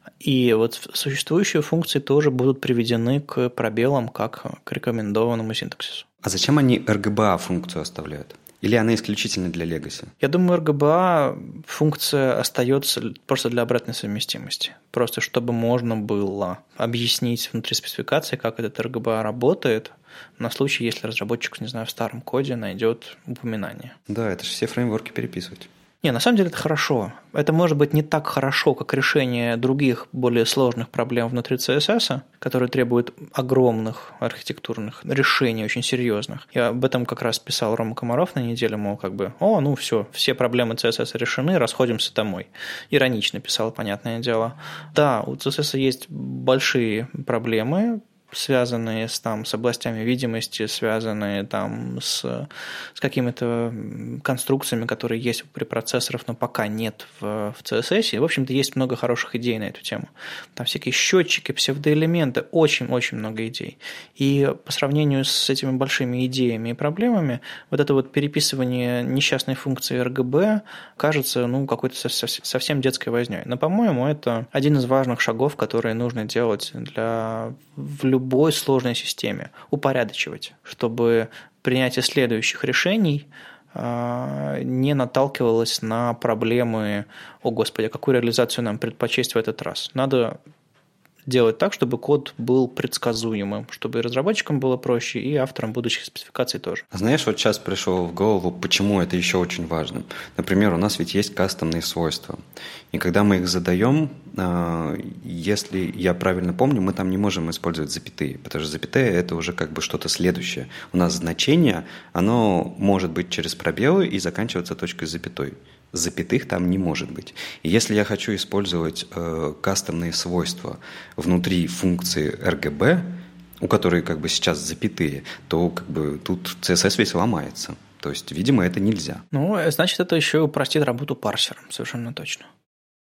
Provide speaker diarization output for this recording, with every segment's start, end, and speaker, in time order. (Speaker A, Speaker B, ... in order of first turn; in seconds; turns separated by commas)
Speaker A: 0.2-6.1, Speaker B: 6.2-10.1, Speaker A: 10.2-24.0, Speaker B: 24.1-25.7, Speaker A: 26.0-90.4, Speaker A: 91.3-96.8, Speaker B: 96.9-102.4, Speaker B: 102.9-129.2, Speaker A: 129.3-132.5